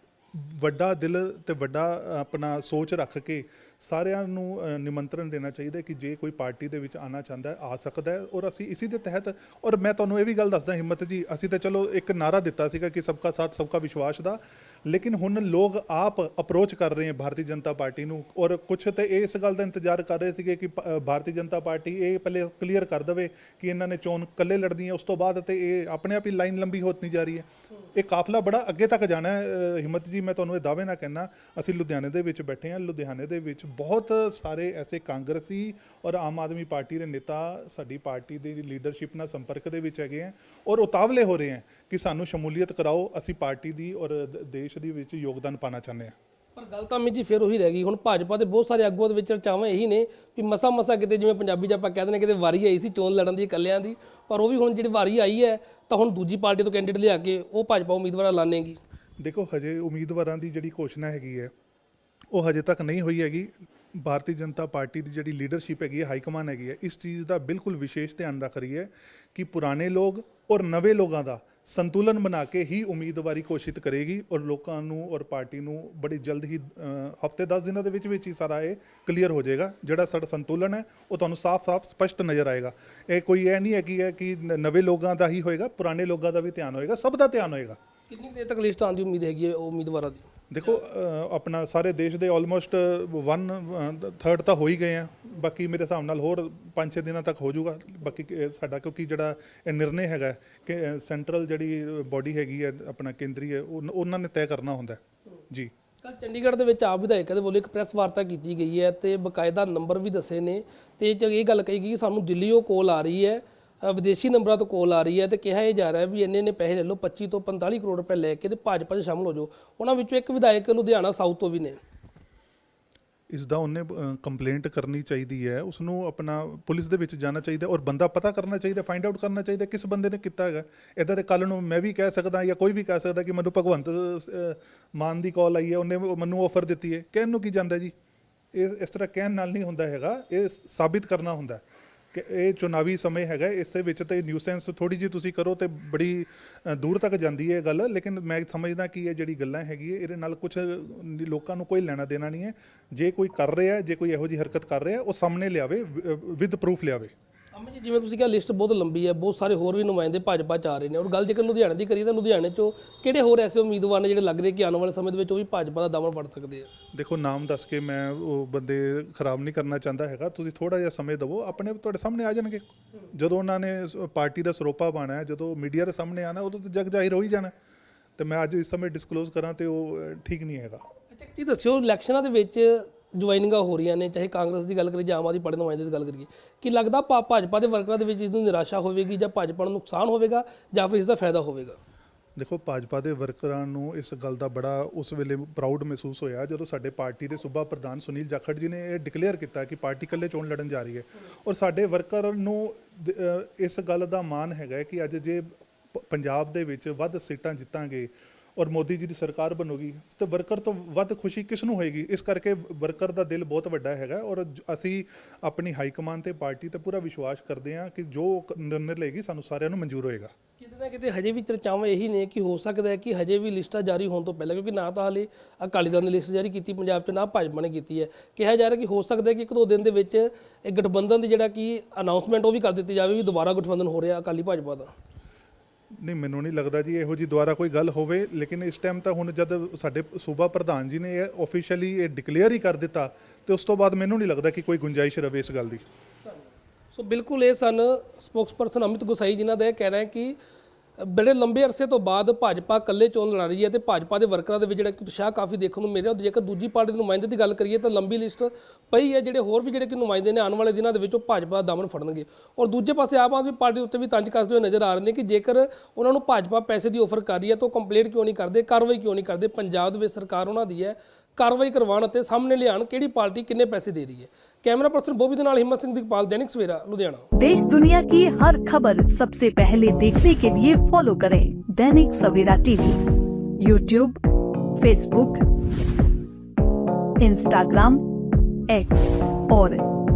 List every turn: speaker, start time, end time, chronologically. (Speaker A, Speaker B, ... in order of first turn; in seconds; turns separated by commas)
Speaker A: 0.3-46.1, Speaker B: 46.5-58.8, Speaker A: 59.2-61.5, Speaker A: 62.3-87.8, Speaker B: 88.1-90.3, Speaker A: 90.5-105.7, Speaker B: 106.0-121.8, Speaker A: 123.3-137.9, Speaker A: 138.5-157.1, Speaker B: 157.5-166.7, Speaker A: 166.9-177.5, Speaker A: 178.2-180.8, Speaker B: 181.1-191.8, Speaker A: 192.3-220.3, Speaker B: 220.6-234.9, Speaker A: 235.9-245.8, Speaker B: 246.9-250.4, Speaker B: 251.0-277.2, Speaker C: 277.4-283.0, Speaker C: 283.6-284.2, Speaker C: 284.8-285.4, Speaker C: 287.2-288.0, Speaker C: 288.7-289.8